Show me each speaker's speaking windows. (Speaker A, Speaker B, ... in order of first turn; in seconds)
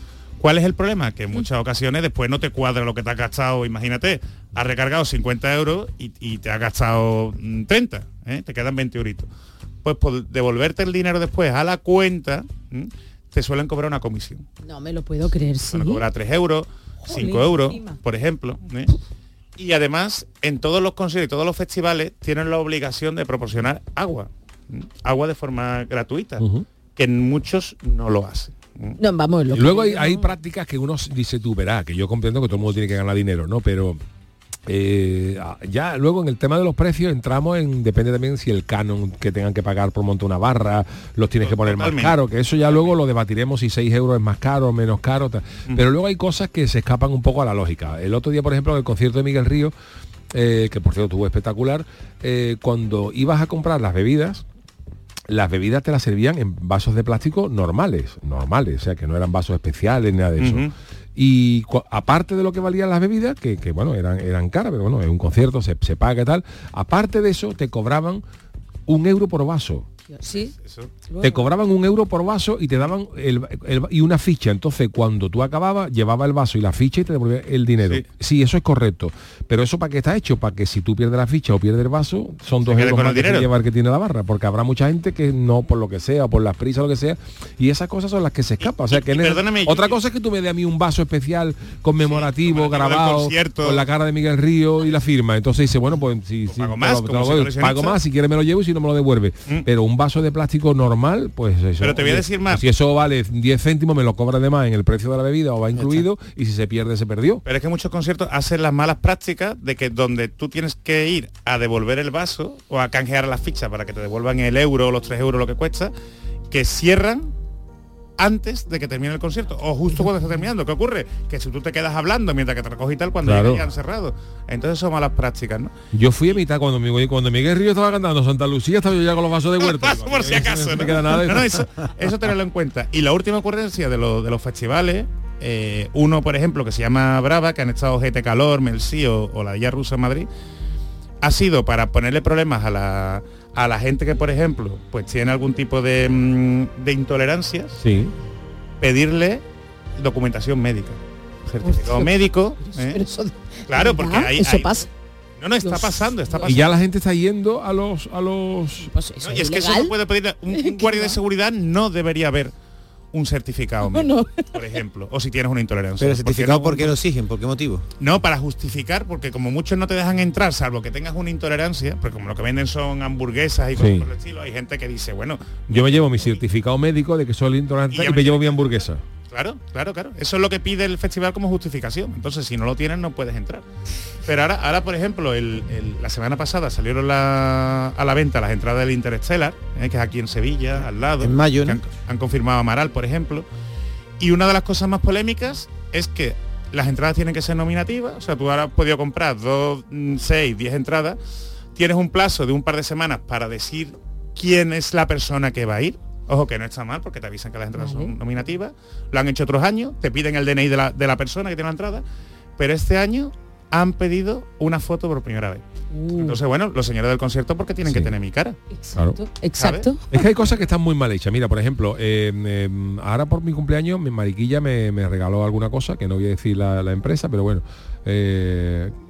Speaker A: 0.4-9.3, 9.8-14.4, 15.7-18.9, 19.6-26.4, 26.9-29.0, 41.4-42.9, 60.4-60.7, 70.6-70.9, 82.6-83.5, 88.6-90.0, 92.0-93.8, 96.5-98.0, 101.8-102.6, 107.4-115.9, 116.5-117.3, 118.2-125.7, 129.6-140.3, 141.2-147.8, 148.8-149.4, 150.0-153.0, 153.7-154.9, 155.4-156.8, 159.2-162.5, 163.1-166.9, 168.0-176.4, 177.9-178.7, 179.3-183.6, 184.2-193.4, 194.2-201.2, 201.7-212.0, 212.6-215.6, 216.1-218.6, 219.5-219.9
Speaker B: 14.6-16.0, 17.0-18.0, 29.0-30.3, 70.1-70.5, 71.1-71.5, 151.6-154.9, 155.6-156.6, 158.8-159.9, 160.5-161.2, 163.9-164.5, 207.8-208.1, 215.9-216.4, 218.7-220.3
Speaker C: 26.4-26.6, 29.5-34.0, 34.7-49.7, 50.3-54.4, 55.3-68.2, 68.9-69.8, 71.2-107.4, 123.2-123.7, 125.9-131.6, 147.8-148.1, 156.4-158.9, 173.8-174.1, 175.7-179.0, 217.8-218.1, 218.9-219.2, 220.1-228.9
Speaker D: 105.7-106.0, 166.0-167.8, 191.2-191.8